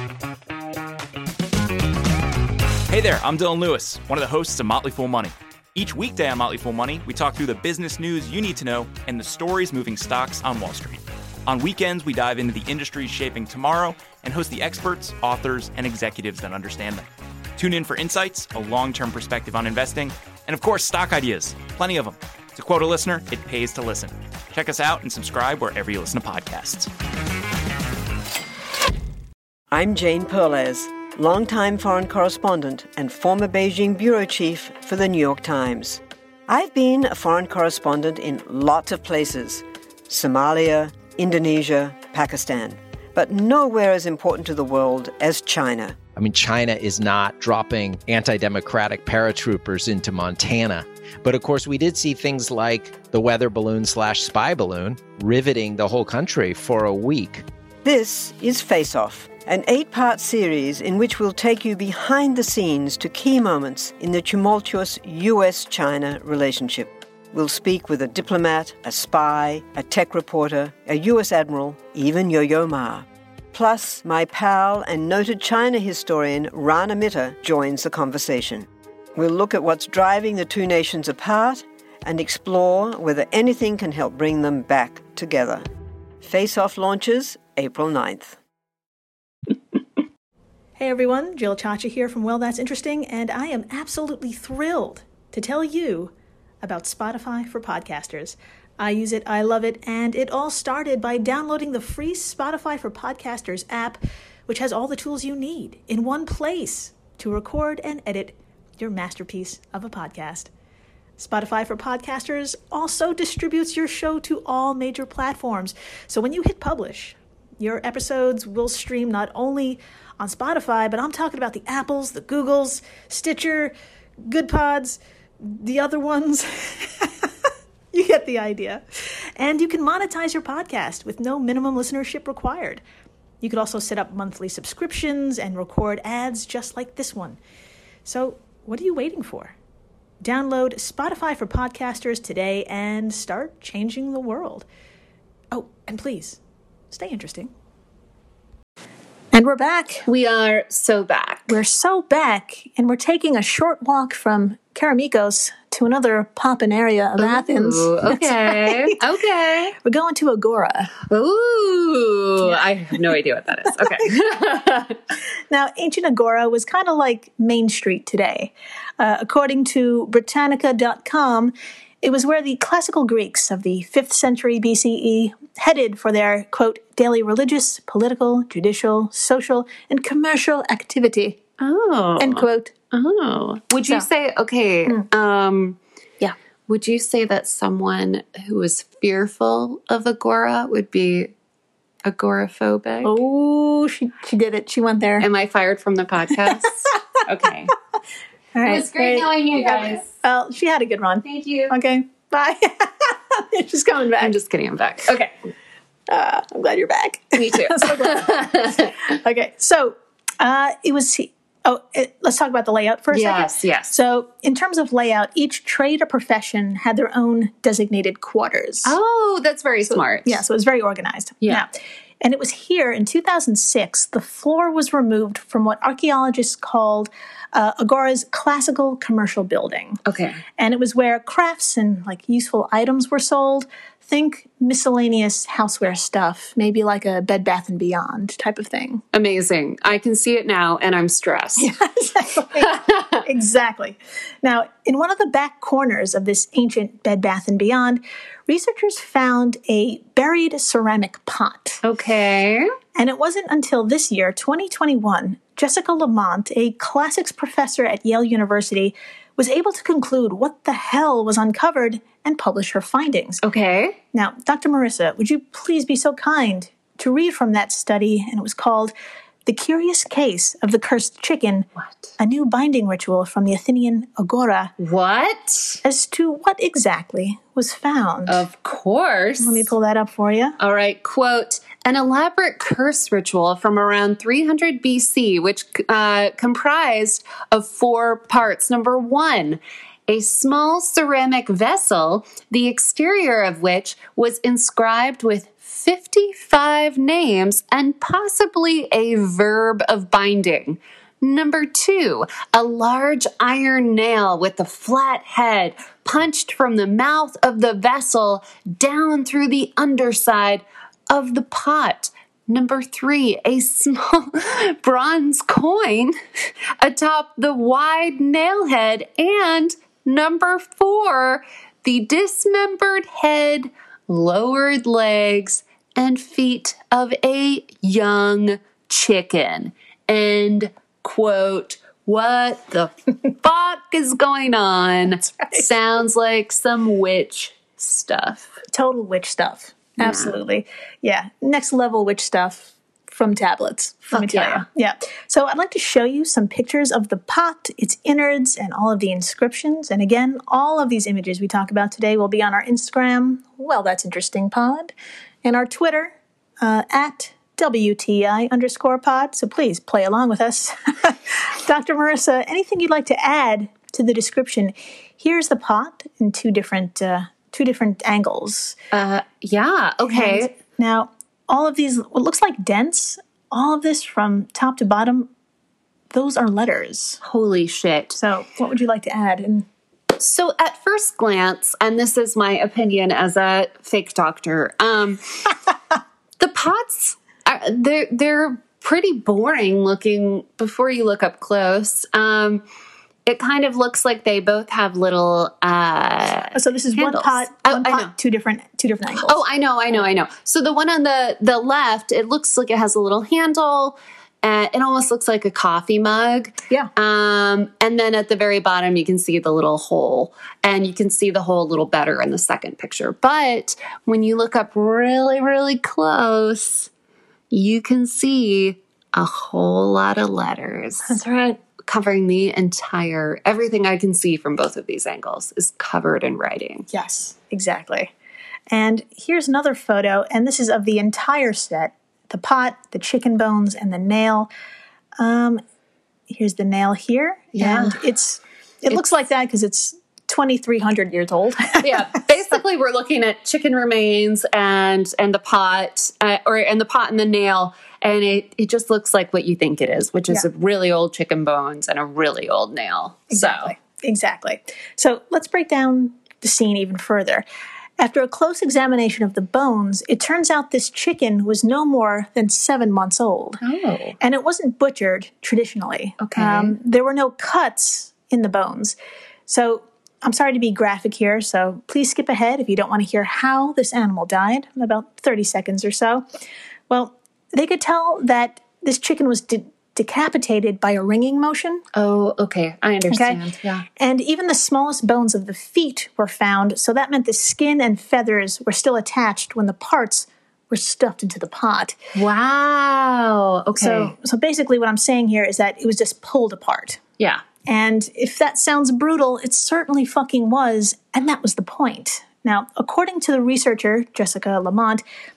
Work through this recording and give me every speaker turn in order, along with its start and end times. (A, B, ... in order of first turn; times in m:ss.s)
0:02.9-0:26.9 A
0:29.7-0:46.0 B
0:46.2-0:57.4 C
0:57.8-1:25.7 B
1:26.2-1:28.4 B
1:30.8-1:50.5 D
1:51.2-2:07.3 D
2:07.9-2:12.8 D
2:13.4-2:17.4 D
2:18.0-2:19.6 D
2:20.2-2:24.6 D
2:25.5-2:26.4 D
2:26.9-2:27.5 D
2:29.3-2:30.1 D
2:30.1-2:31.6 E
2:31.5-2:39.0 D
2:37.2-2:39.7 E
2:39.8-2:40.9 D
2:41.1-2:45.0 E
2:45.5-3:01.4 D
3:01.6-3:05.8 E
3:02.2-3:02.7 D
3:06.7-3:11.3 E
3:12.0-3:13.2 E
3:13.0-3:15.3 D
3:15.2-3:17.7 E
3:18.6-3:24.4 D
3:18.6-3:20.1 E
3:21.2-3:21.7 E
3:24.2-3:25.3 E
3:26.1-3:39.0 D
3:27.4-3:29.0 E
3:33.1-3:33.9 E
3:38.8-3:40.4 E
3:39.9-3:41.7 D
3:42.2-3:50.0 D
3:50.0-3:50.4 E
3:50.6-3:59.0 D
3:59.1-4:01.7 E
4:01.6-4:11.8 D
4:02.6-4:03.2 E
4:11.8-4:12.7 E
4:13.0-4:23.4 D
4:23.4-4:24.0 E
4:24.1-4:28.9 D
4:29.4-4:31.7 D
4:32.2-4:34.7 D
4:34.8-4:35.8 E
4:35.8-4:38.5 D
4:38.3-4:39.7 E
4:39.4-4:40.6 D
4:40.6-5:16.2 E
5:16.8-5:38.6 E
5:35.2-5:35.7 D
5:38.7-5:54.9 D
5:40.0-5:40.4 E
5:44.1-5:44.7 E
5:55.4-6:08.8 D
6:08.9-6:10.5 E
6:10.1-6:15.3 D
6:16.1-6:17.2 D
6:17.2-6:18.2 E
6:18.2-6:19.7 D
6:20.2-6:25.5 E
6:26.4-6:32.6 E
6:33.3-6:38.1 E
6:36.5-6:39.4 D
6:39.2-6:56.9 E
6:57.5-7:01.2 E
7:01.1-7:01.6 D
7:01.8-7:06.9 E
7:06.9-7:08.1 D
7:08.7-7:14.5 D
7:15.2-7:15.6 D
7:16.3-7:22.2 D
7:17.5-7:18.0 E
7:21.8-7:33.7 E
7:33.3-7:37.4 D
7:38.0-7:43.6 D
7:43.6-7:44.2 E
7:44.2-7:49.0 D
7:46.2-7:46.8 E
7:49.5-7:56.2 D
7:56.9-8:01.8 D
8:01.9-8:03.8 E
8:03.1-8:03.4 D
8:04.0-8:12.0 D
8:12.2-8:14.1 E
8:13.8-8:17.0 D
8:17.7-8:25.0 D